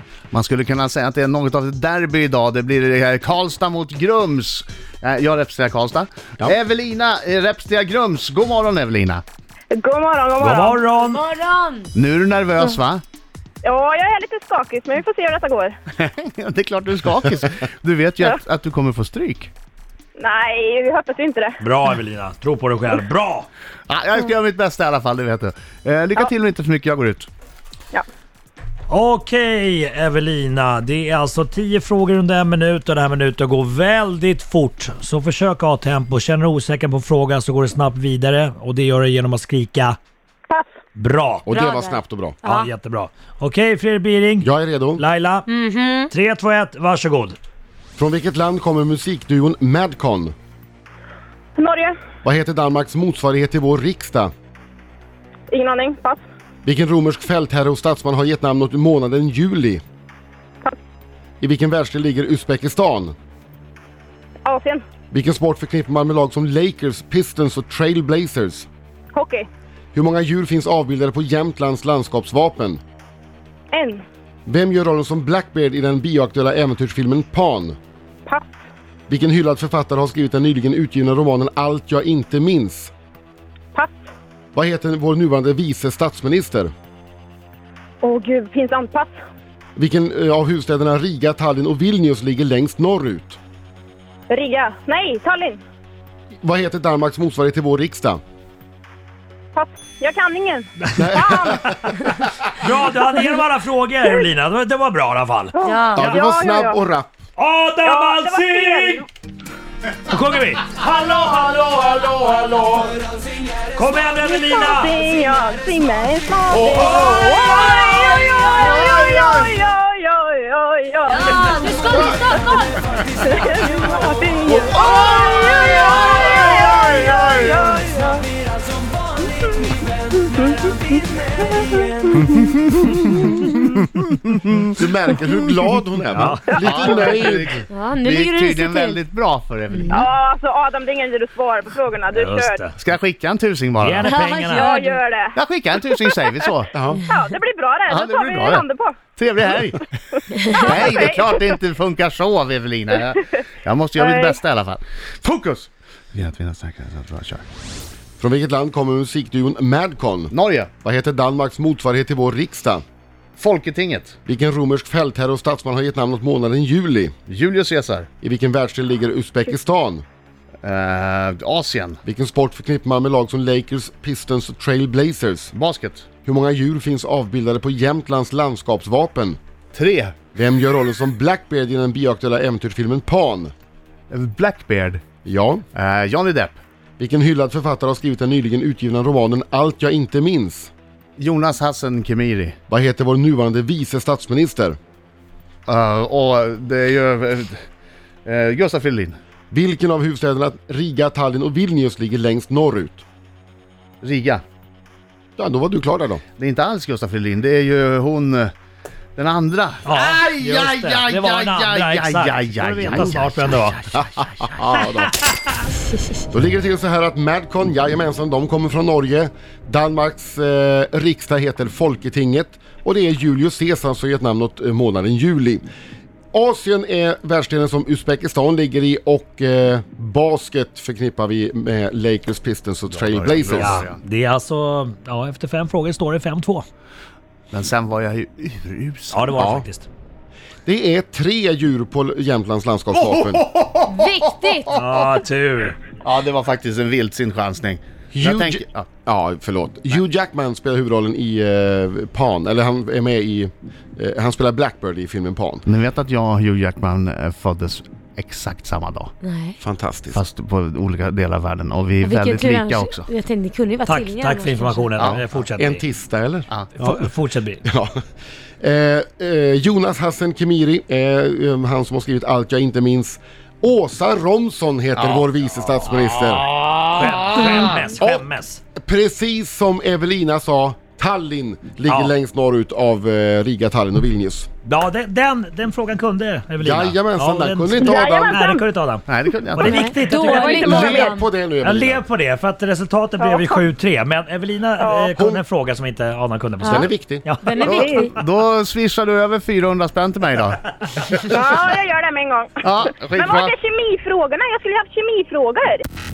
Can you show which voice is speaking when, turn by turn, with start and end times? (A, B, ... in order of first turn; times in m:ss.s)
0:00.3-0:09.2 A
0:09.7-0:10.9 B
0:10.4-0:11.2 C
0:11.1-0:11.9 D
0:11.9-0:13.0 A
0:13.6-0:15.7 B
0:16.0-0:19.5 A
0:20.2-0:21.6 B
0:21.6-0:23.5 C
0:23.9-0:27.3 A
0:28.9-0:40.0 C
0:41.0-0:41.5 C
0:41.4-0:42.4 E
0:41.5-0:42.7 D
0:42.4-0:45.5 C
0:44.4-0:45.0 E
0:45.5-0:46.1 D
0:46.1-0:47.4 C
0:48.0-0:50.3 E
0:51.6-0:52.0 B
0:52.2-0:54.3 E
0:55.5-0:56.2 B
0:56.6-0:59.8 E
1:01.4-1:03.1 E
1:04.4-1:04.8 B
1:05.1-1:08.7 E
1:09.1-1:09.5 B
1:09.9-1:12.8 E
1:13.7-1:14.0 B
1:14.4-1:17.8 E
1:18.2-1:18.5 B
1:19.1-1:22.9 E
1:23.7-1:24.1 B
1:24.5-1:26.7 E
1:28.0-1:29.1 B
1:29.8-1:33.4 E
1:34.3-1:35.6 B
1:36.4-1:38.2 E
1:39.5-1:41.7 B
1:41.0-1:41.7 E
1:42.0-1:45.6 C
1:45.5-1:46.8 B
1:45.6-1:46.0 D
1:45.9-1:47.1 E
1:47.4-1:49.0 C
1:47.8-1:49.0 B
1:50.0-1:52.9 C
1:51.3-1:52.6 E
1:53.7-1:54.9 C
1:54.2-2:08.2 B
1:56.6-1:57.3 E
1:56.7-1:57.6 C
1:58.6-1:59.4 A
2:01.1-2:02.8 D
2:04.5-2:07.7 A
2:10.3-2:10.7 B
2:11.4-2:12.0 B
2:12.3-2:14.6 A
2:14.7-2:17.6 E
2:16.1-2:17.5 C
2:16.5-2:17.0 B
2:16.6-2:20.1 A
2:17.0-2:19.0 D
2:19.9-2:22.6 B
2:22.1-2:22.8 C
2:22.8-2:24.2 A
2:23.8-2:24.7 C
2:24.0-2:25.0 D
2:24.6-2:26.2 B
2:25.3-2:26.7 A
2:26.7-2:27.0 E
2:27.0-2:28.9 B
2:27.9-2:29.9 A
2:30.4-2:31.4 B
2:30.4-2:37.4 A
2:34.0-2:34.4 B
2:38.2-2:42.8 E
2:40.3-2:40.7 A
2:43.4-2:44.2 A
2:44.2-2:47.1 E
2:47.3-2:48.1 A
2:48.2-2:50.0 E
2:50.6-2:52.0 A
2:52.0-2:55.5 E
2:55.5-2:56.0 A
2:56.2-2:59.4 E
2:59.7-3:00.2 A
3:00.3-3:03.5 E
3:04.1-3:05.0 A
3:05.2-3:05.6 E
3:05.7-3:06.6 A
3:07.0-3:10.7 E
3:11.2-3:12.6 A
3:12.7-3:14.8 E
3:15.7-3:17.6 A
3:18.2-3:19.2 A
3:19.5-3:23.0 E
3:24.0-3:24.4 A
3:25.4-3:26.2 E
3:26.4-3:28.5 A
3:29.2-3:34.3 A
3:29.8-3:33.8 C
3:33.9-3:35.1 E
3:34.9-3:35.3 C
3:36.3-3:45.6 E
3:46.3-3:53.8 E
3:52.9-3:54.0 A
3:53.6-3:56.6 C
3:57.5-3:59.4 A
3:59.1-3:59.9 C
3:59.3-3:59.6 E
4:00.6-4:03.4 E
4:03.0-4:04.8 A
4:03.9-4:04.7 D
4:04.7-4:05.8 C
4:06.0-4:08.9 A
4:08.1-4:15.6 E
4:15.6-4:19.1 A
4:19.2-4:19.6 D
4:19.6-4:20.2 E
4:20.1-4:23.1 A
4:22.0-4:24.9 D
4:23.8-4:25.8 C
4:25.0-4:25.2 A
4:25.6-4:27.0 E
4:26.8-4:27.6 C
4:27.6-4:28.0 E
4:28.6-4:36.5 E
4:35.0-4:38.6 C
4:36.6-4:37.8 A
4:38.0-4:44.5 E
4:41.9-4:42.1 C
4:44.6-4:50.9 C
4:46.6-4:48.4 E
4:47.8-4:48.6 B
4:49.1-4:49.9 A
4:49.6-4:51.2 D
4:50.1-4:51.2 B
4:50.6-4:52.0 E
4:51.6-4:57.5 C
4:53.2-4:53.6 B
4:54.8-4:55.3 B
4:56.6-4:56.9 D
4:56.6-4:57.3 E
4:57.4-4:58.1 D
4:57.6-4:58.1 B
4:57.6-5:00.6 A
5:01.2-5:02.6 B
5:02.6-5:03.5 A
5:03.1-5:05.8 B